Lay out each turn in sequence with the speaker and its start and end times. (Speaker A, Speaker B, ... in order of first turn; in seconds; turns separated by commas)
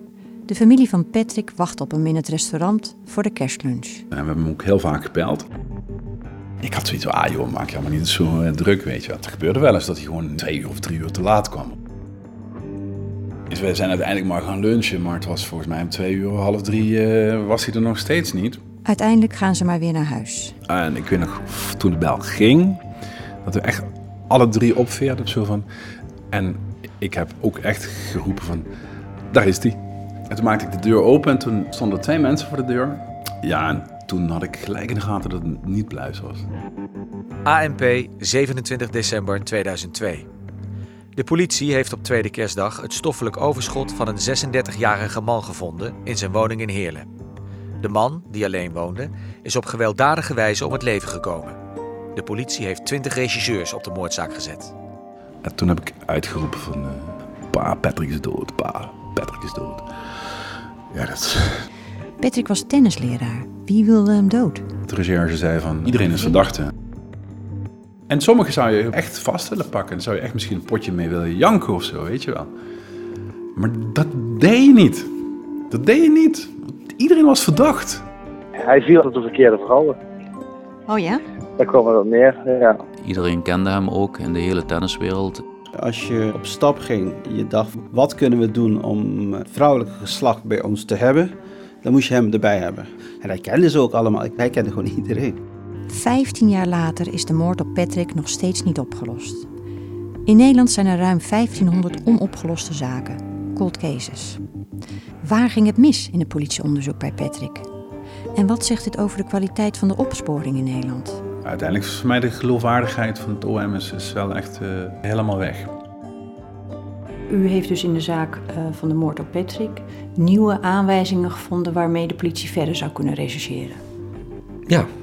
Speaker A: 0.5-4.0, Speaker B: 4.1-5.5, Speaker B: 6.6-11.8, Speaker B: 13.5-18.6, Speaker A: 18.9-20.6, Speaker B: 20.7-22.8, Speaker B: 23.4-25.7, Speaker B: 26.3-28.7, Speaker B: 29.3-29.8, Speaker B: 30.3-36.5, Speaker C: 37.5-40.3, Speaker C: 41.2-47.1, Speaker C: 47.8-51.6, Speaker C: 52.1-54.7, Speaker B: 55.4-59.9, Speaker B: 60.9-61.7, Speaker A: 62.2-64.7, Speaker B: 64.9-66.7, Speaker B: 68.1-72.5, Speaker B: 73.6-75.1, Speaker B: 75.7-78.0, Speaker D: 78.6-80.0, Speaker A: 80.9-81.2, Speaker D: 81.6-82.8, Speaker E: 83.0-85.4, Speaker F: 85.8-95.4, Speaker A: 95.9-99.5, Speaker A: 100.3-104.4, Speaker A: 105.2-107.7, Speaker A: 108.3-111.2, Speaker B: 111.4-115.7, Speaker A: 117.3-123.8